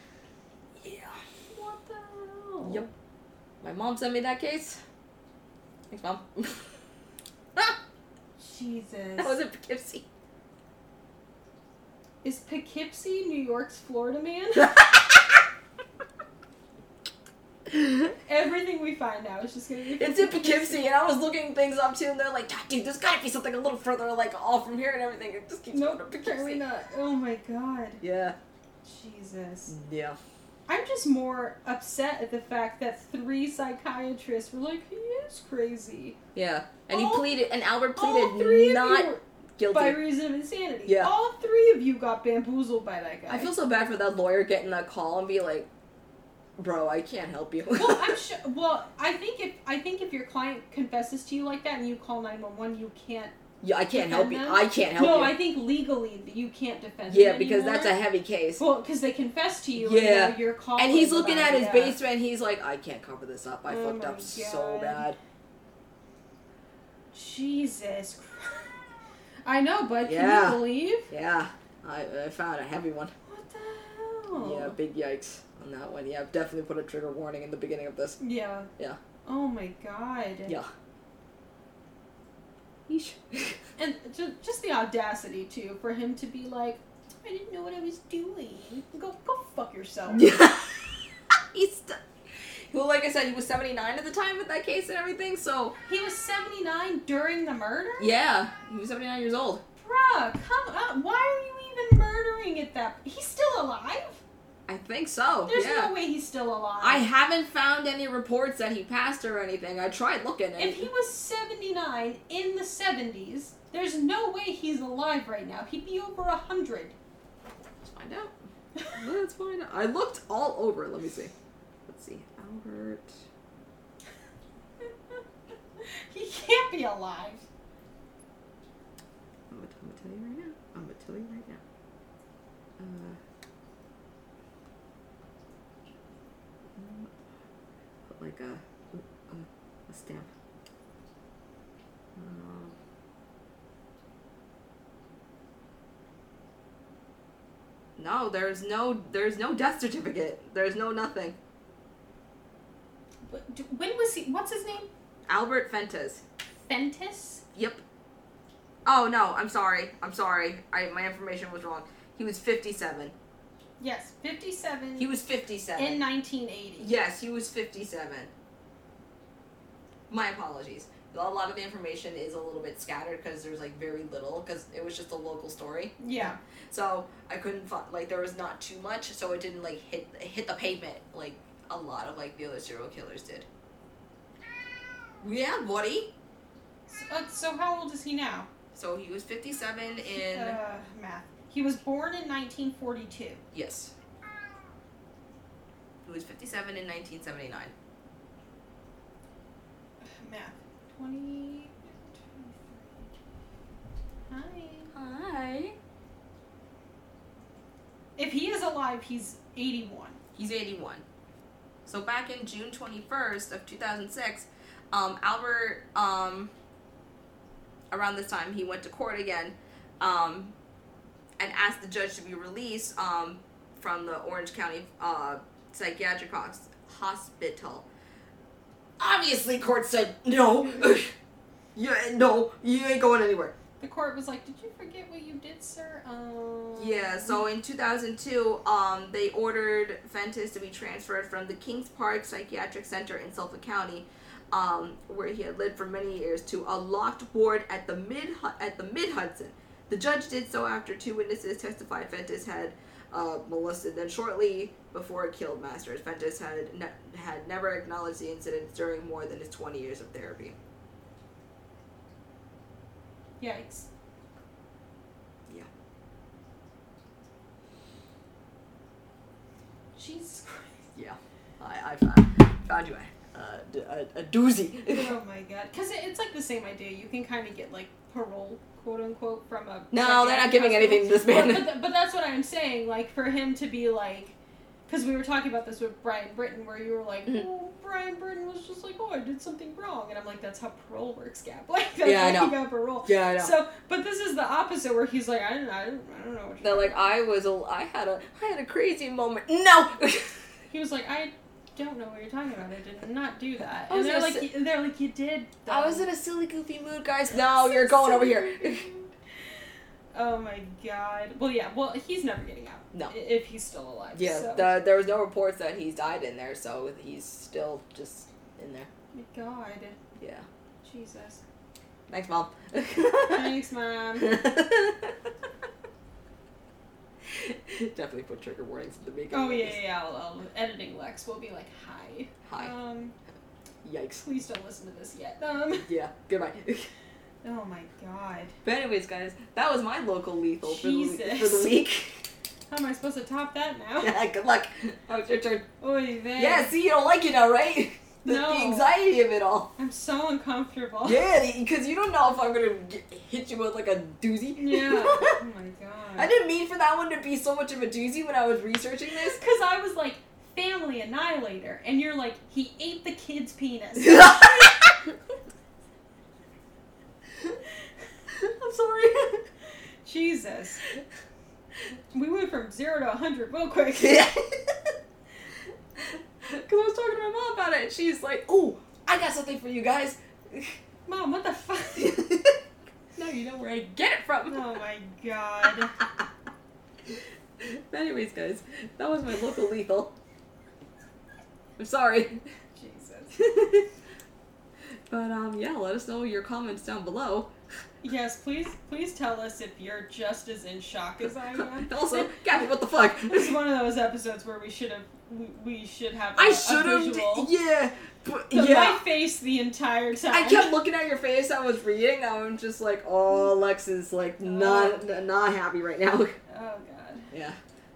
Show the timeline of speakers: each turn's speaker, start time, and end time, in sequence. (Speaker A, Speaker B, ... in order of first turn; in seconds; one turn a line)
Speaker A: 0.8-1.2
Speaker B: 1.5-2.9
Speaker A: 2.6-2.9
Speaker A: 3.6-4.8
Speaker A: 5.9-6.6
Speaker B: 8.4-9.4
Speaker A: 9.2-10.1
Speaker B: 12.2-14.9
Speaker A: 14.6-15.2
Speaker B: 18.2-20.9
Speaker A: 20.0-26.6
Speaker B: 25.7-28.0
Speaker A: 28.0-28.4
Speaker B: 28.8-29.7
Speaker A: 29.7-30.2
Speaker B: 30.7-36.2
Speaker A: 36.4-40.0
Speaker B: 36.9-37.3
Speaker B: 37.9-43.5
Speaker A: 40.9-41.1
Speaker A: 43.3-45.7
Speaker A: 46.6-48.2
Speaker B: 47.8-53.4
Speaker A: 53.6-55.4
Speaker B: 53.9-58.0
Speaker A: 57.1-58.6
Speaker B: 58.6-62.0
Speaker A: 59.8-65.2
Speaker B: 63.7-65.1
Speaker B: 67.1-68.7
Speaker B: 69.5-71.1
Speaker A: 70.0-73.1
Speaker B: 73.3-74.8
Speaker A: 74.3-78.2
Speaker B: 78.2-78.7
Speaker B: 79.2-80.6
Speaker A: 82.9-83.6
Speaker B: 83.8-90.4
Speaker A: 90.1-91.0
Speaker A: 91.5-95.8
Speaker B: 95.9-98.1
Speaker A: 98.0-99.6
Speaker B: 99.8-104.2
Speaker A: 104.7-105.9
Speaker B: 105.5-107.1
Speaker A: 106.8-110.9
Speaker B: 110.6-117.0
Speaker A: 117.8-118.3
Speaker A: 118.9-121.3
Speaker A: 121.9-123.2
Speaker B: 125.8-127.4
Speaker A: 129.5-131.6
Speaker A: 132.8-133.2
Speaker A: 136.8-137.1
Speaker A: 138.1-140.3
Speaker A: 142.2-142.7
Speaker A: 148.0-151.4
Speaker B: 153.3-154.9
Speaker A: 155.3-156.2
Speaker B: 156.7-157.4
Speaker A: 157.5-157.8
Speaker A: 158.8-163.2
Speaker B: 163.8-165.1
Speaker A: 165.0-166.0
Speaker B: 165.8-166.9
Speaker A: 166.8-168.3
Speaker A: 170.1-183.5
Speaker B: 176.0-176.4
Speaker A: 185.2-186.1
Speaker B: 186.9-188.5
Speaker A: 188.7-190.6
Speaker B: 190.1-193.4
Speaker A: 193.5-193.9
Speaker A: 196.0-197.7
Speaker B: 200.2-203.1
Speaker B: 204.3-204.9
Speaker A: 204.9-205.8
Speaker B: 208.2-210.2
Speaker A: 210.4-211.1
Speaker A: 211.9-216.5
Speaker A: 217.9-220.6
Speaker A: 221.4-227.9
Speaker A: 229.0-231.1
Speaker A: 231.8-233.6
Speaker B: 233.8-237.4
Speaker A: 236.8-260.6
Speaker B: 263.4-263.9
Speaker B: 269.9-270.9
Speaker A: 270.9-275.2
Speaker B: 274.9-284.4
Speaker A: 279.9-281.8
Speaker B: 284.9-297.1
Speaker A: 292.0-293.5
Speaker A: 296.6-300.4
Speaker B: 300.7-306.1
Speaker A: 303.9-304.5
Speaker A: 305.7-308.9
Speaker B: 307.3-309.1
Speaker B: 310.1-314.8
Speaker A: 314.1-318.9
Speaker B: 319.1-320.0
Speaker A: 320.2-320.5
Speaker B: 320.8-321.4
Speaker A: 322.1-323.6
Speaker B: 323.3-324.4
Speaker A: 324.2-325.2
Speaker A: 327.2-329.8
Speaker B: 329.3-333.1
Speaker A: 332.4-332.7
Speaker A: 333.8-334.2
Speaker B: 334.2-335.9
Speaker A: 335.9-336.9
Speaker B: 337.4-338.6
Speaker A: 338.6-342.2
Speaker B: 340.6-341.8
Speaker B: 342.7-344.2
Speaker A: 344.0-345.7
Speaker B: 345.8-346.7
Speaker A: 346.4-349.7
Speaker B: 348.2-348.9
Speaker B: 349.8-351.3
Speaker A: 351.1-355.4
Speaker B: 354.6-356.3
Speaker A: 356.2-359.4
Speaker B: 359.2-364.8
Speaker A: 364.0-364.9
Speaker A: 368.4-369.4
Speaker B: 370.0-370.8
Speaker B: 372.1-374.3
Speaker A: 374.0-374.9
Speaker A: 376.0-380.8
Speaker B: 381.1-382.2
Speaker A: 382.0-382.6
Speaker A: 383.1-384.7
Speaker B: 384.5-385.9
Speaker A: 387.1-390.1
Speaker A: 391.8-392.4
Speaker B: 392.8-393.4
Speaker A: 393.3-393.9
Speaker A: 395.1-397.5
Speaker B: 398.0-402.4
Speaker A: 401.2-403.6
Speaker B: 403.2-407.5
Speaker A: 406.4-409.0
Speaker B: 408.5-410.8
Speaker A: 410.3-416.4
Speaker B: 414.4-415.1
Speaker B: 416.5-417.3
Speaker A: 417.3-417.6